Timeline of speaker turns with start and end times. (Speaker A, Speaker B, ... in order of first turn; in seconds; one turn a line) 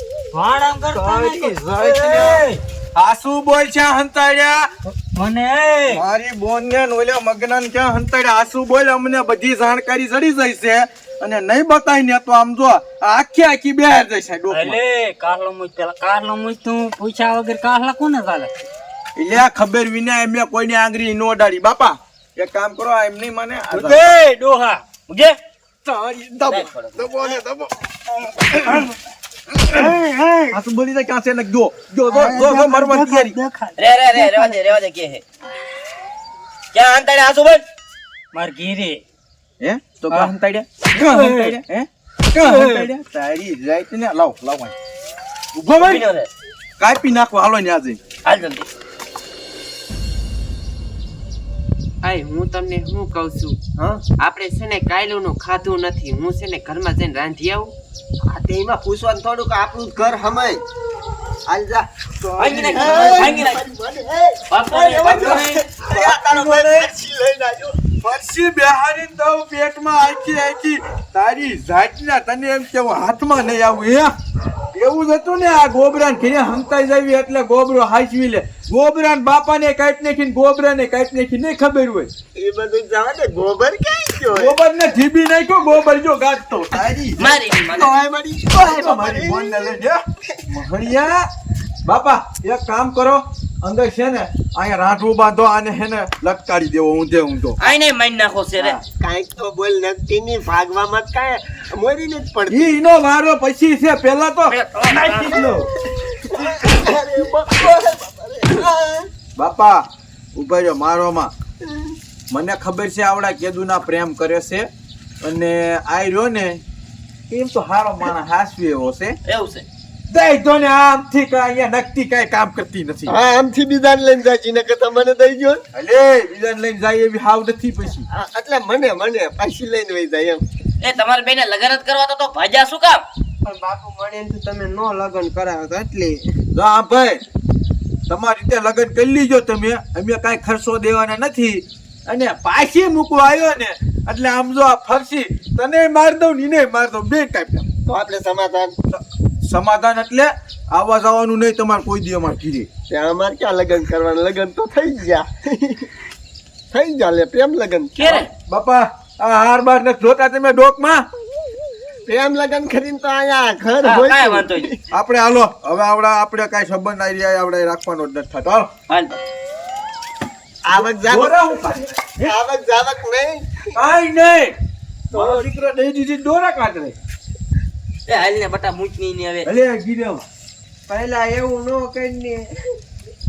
Speaker A: 0.3-2.6
Speaker B: 0.9-2.4
Speaker B: 2.9-4.7
Speaker A: 4.9-6.0
Speaker B: 5.9-14.8
Speaker A: 14.5-18.5
Speaker B: 19.2-24.1
Speaker A: 23.7-24.8
Speaker C: 25.1-25.4
Speaker B: 25.8-27.8
Speaker C: 26.5-27.2
Speaker B: 28.4-28.9
Speaker A: 29.7-30.6
Speaker B: 30.5-33.4
Speaker A: 32.1-34.5
Speaker C: 33.8-35.2
Speaker C: 36.7-37.6
Speaker A: 38.3-39.0
Speaker B: 39.6-44.7
Speaker A: 41.0-41.6
Speaker A: 42.4-42.9
Speaker B: 45.5-46.0
Speaker C: 45.8-46.3
Speaker B: 46.8-48.0
Speaker C: 48.2-48.7
Speaker D: 52.0-57.7
Speaker E: 53.8-54.0
Speaker E: 58.2-60.6
Speaker E: 61.5-61.8
Speaker B: 62.2-63.4
Speaker C: 62.4-63.6
Speaker E: 62.7-67.8
Speaker C: 64.5-65.6
Speaker B: 65.1-66.9
Speaker B: 68.0-74.1
Speaker B: 74.7-82.1
Speaker E: 82.3-84.5
Speaker B: 84.3-88.0
Speaker C: 87.2-87.9
Speaker E: 87.8-89.8
Speaker B: 88.5-91.2
Speaker E: 90.3-90.6
Speaker B: 91.8-97.6
Speaker C: 97.6-98.8
Speaker B: 98.6-98.8
Speaker E: 99.0-102.7
Speaker B: 102.5-105.7
Speaker C: 104.5-105.4
Speaker E: 105.5-109.0
Speaker B: 109.3-109.8
Speaker B: 110.3-111.3
Speaker B: 112.3-114.7
Speaker B: 115.2-116.6
Speaker B: 117.3-119.2
Speaker C: 119.2-119.7
Speaker B: 120.1-123.1
Speaker E: 123.1-125.6
Speaker B: 125.7-128.0
Speaker E: 128.1-130.4
Speaker C: 130.8-133.0
Speaker D: 133.4-136.2
Speaker B: 136.5-137.2
Speaker B: 138.1-147.7
Speaker E: 147.8-148.7
Speaker B: 148.9-152.7
Speaker E: 152.9-155.9
Speaker E: 156.7-158.2
Speaker C: 158.0-158.3
Speaker B: 158.5-161.1
Speaker E: 162.1-164.8
Speaker C: 163.8-164.8
Speaker B: 164.9-168.7
Speaker C: 168.9-169.1
Speaker E: 170.7-173.8
Speaker B: 170.7-171.9
Speaker B: 173.7-174.5
Speaker B: 175.1-176.9
Speaker E: 175.1-175.5
Speaker C: 178.1-179.5
Speaker B: 179.4-180.2
Speaker E: 180.9-182.6